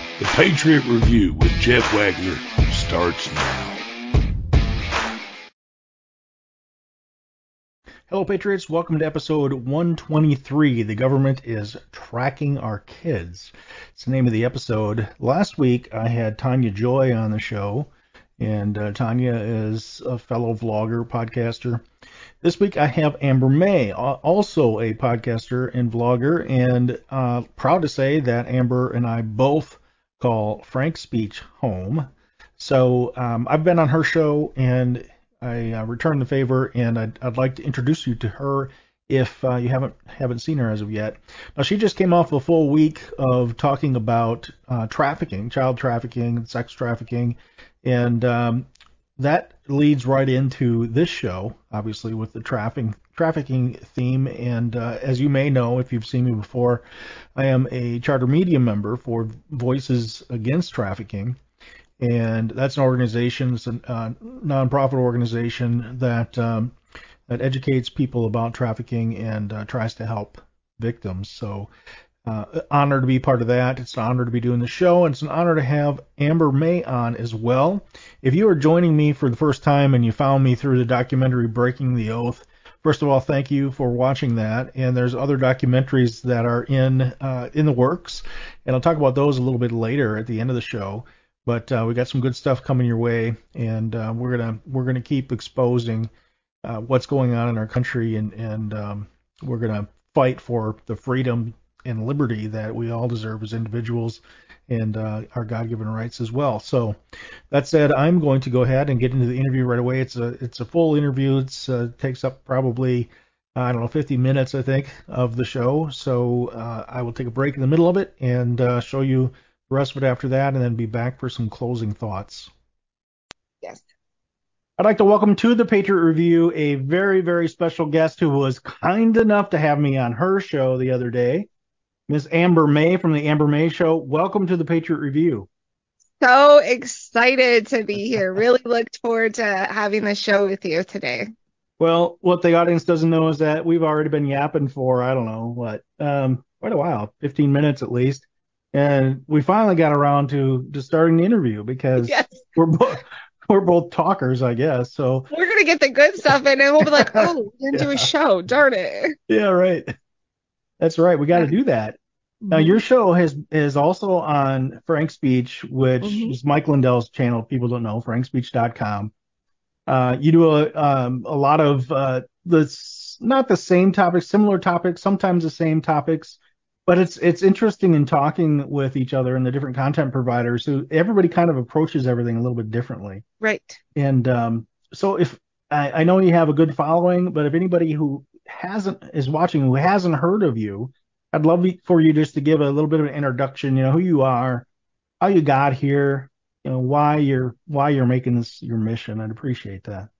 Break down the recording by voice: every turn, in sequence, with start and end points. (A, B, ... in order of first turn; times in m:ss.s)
0:00.2-0:03.8 A
0:08.1-0:21.8 B
0:22.4-0:56.8 B
0:57.3-1:01.4 B
1:02.0-1:06.8 B
1:07.3-1:11.7 B
1:12.2-1:36.1 B
1:36.6-1:47.0 B
1:47.5-2:02.5 B
2:04.8-2:11.5 B
2:12.1-2:15.5 B
2:16.2-2:21.3 C
2:21.8-2:35.3 B
2:32.0-2:32.4 C
2:35.3-2:39.2 C
2:36.8-2:38.1 B
2:39.3-2:39.9 B
2:40.8-2:42.0 B
2:42.4-2:42.8 C
2:42.5-2:49.1 B
2:46.0-2:46.3 C
2:49.9-3:03.2 B
3:03.4-3:03.8 C
3:04.0-3:14.7 B
3:15.2-3:20.1 B